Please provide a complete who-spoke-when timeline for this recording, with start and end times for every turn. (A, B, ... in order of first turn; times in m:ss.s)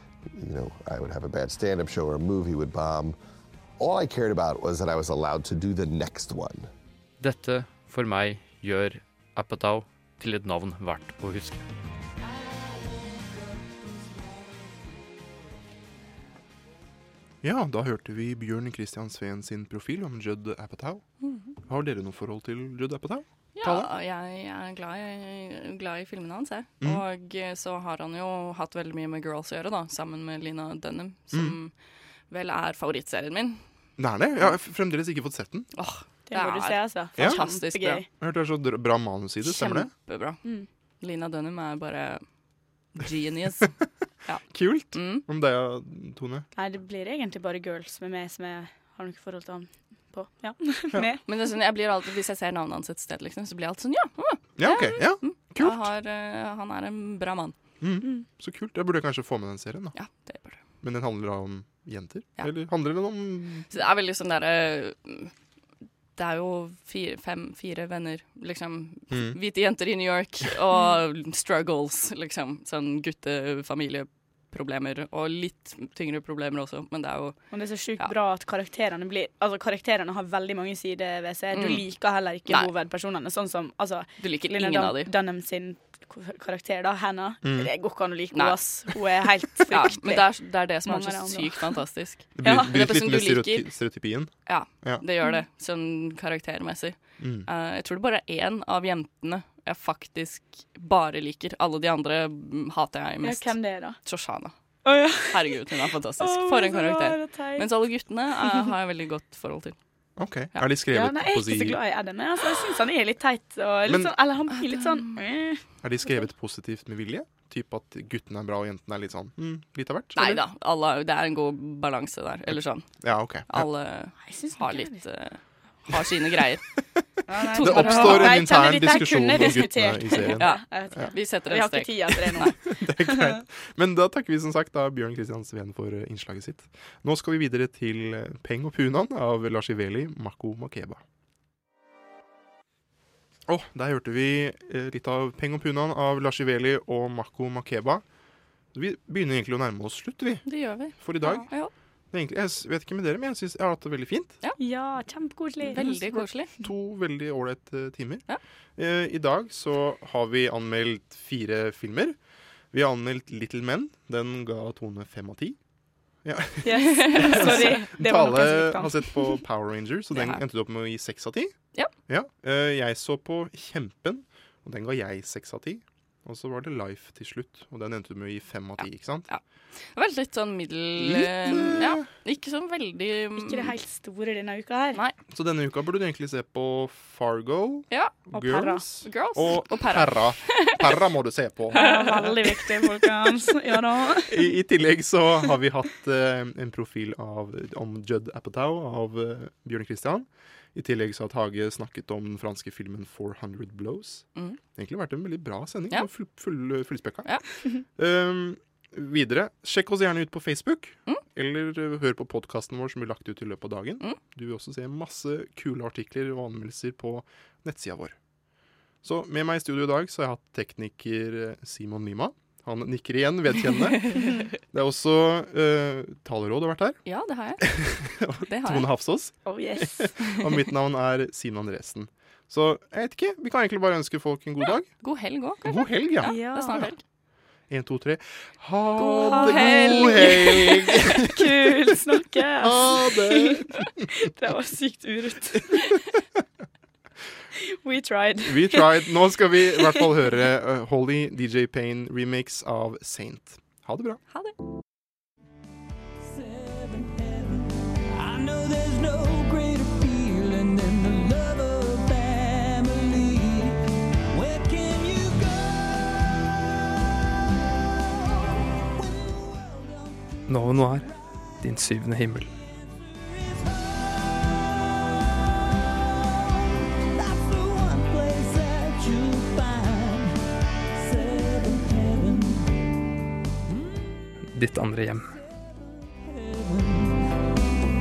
0:00.4-0:03.2 A
0:03.8-0:06.7 A
0:07.2-0:11.7 B
0:17.4-0:21.0 C
0:21.2-0:21.5 D
0:21.7-0:23.9 C
0:23.6-0:31.7 D
0:32.3-0:33.6 D
0:34.0-0:35.7 C
0:35.8-0:38.0 D
0:36.3-0:38.1 E
0:38.2-0:39.9 C
0:39.5-0:40.4 D
0:41.0-0:42.2 D
0:43.0-0:43.7 D
0:44.5-0:46.5 C
0:44.9-0:45.2 D
0:46.6-0:51.2 E
0:51.3-0:57.6 D
0:54.6-0:55.9 C
0:57.8-1:00.0 C
1:00.0-1:00.6 D
1:00.8-1:03.7 C
1:03.7-1:05.3 D
1:06.2-1:17.4 D
1:09.1-1:09.4 C
1:17.5-1:30.2 E
1:21.5-1:21.8 D
1:24.2-1:25.1 D
1:27.4-1:27.7 C
1:28.3-1:28.8 D
1:29.7-1:33.7 D
1:30.9-1:31.7 E
1:32.4-1:34.3 C
1:34.5-1:44.5 D
1:37.2-1:37.5 C
1:43.2-1:44.0 E
1:44.9-1:45.4 E
1:45.2-1:49.8 D
1:46.2-1:47.7 E
1:50.2-1:51.8 C
1:50.9-1:55.6 E
1:53.9-1:54.1 C
1:54.5-1:55.2 D
1:55.8-2:00.4 C
2:00.2-2:02.9 D
2:02.5-2:03.7 C
2:03.5-2:06.6 D
2:04.2-2:05.0 E
2:07.3-2:12.5 E
2:07.5-2:08.5 D
2:07.6-2:11.1 C
2:10.3-2:12.5 D
2:12.7-2:21.0 C
2:23.5-2:28.0 C
2:28.7-2:30.4 C
2:30.5-2:31.7 D
2:31.0-2:31.5 C
2:32.1-2:34.4 C
2:34.6-2:36.2 E
2:35.7-2:36.5 D
2:35.8-2:36.0 C
2:36.6-2:38.2 C
2:38.8-2:42.2 C
2:42.7-2:45.6 C
2:46.2-2:51.5 C
2:46.6-2:49.2 E
2:46.8-2:47.8 D
2:50.1-2:50.4 D
2:52.1-2:59.3 C
2:58.8-2:59.4 D
3:00.0-3:03.7 D
3:01.0-3:02.0 C
3:03.4-3:05.0 E
3:05.3-3:12.2 C
3:07.9-3:08.2 D
3:08.3-3:08.8 E
3:09.0-3:10.9 D
3:11.7-3:14.3 E
3:11.7-3:12.4 D
3:14.3-3:27.3 C
3:28.0-3:38.2 C
3:39.0-3:44.1 C
3:44.0-3:44.3 D
3:44.7-3:47.0 C
3:47.1-3:47.6 D
3:47.6-3:54.9 C
3:48.5-3:48.9 D
3:49.4-3:50.1 E
3:55.0-3:57.0 D
3:55.6-3:56.9 C
3:56.2-3:56.9 E
3:57.7-4:01.9 C
3:59.0-4:00.8 D
3:59.0-4:03.6 E
4:02.6-4:04.1 C
4:04.2-4:05.9 E
4:07.7-4:08.9 E
4:08.5-4:14.2 C
4:16.2-4:23.8 F
4:24.3-4:26.4 F
4:28.0-4:40.4 F
4:30.5-4:31.0 G
4:31.6-4:32.5 G
4:41.0-4:42.7 F
4:43.7-4:44.2 F
4:44.5-4:45.2 G
4:45.2-4:47.3 F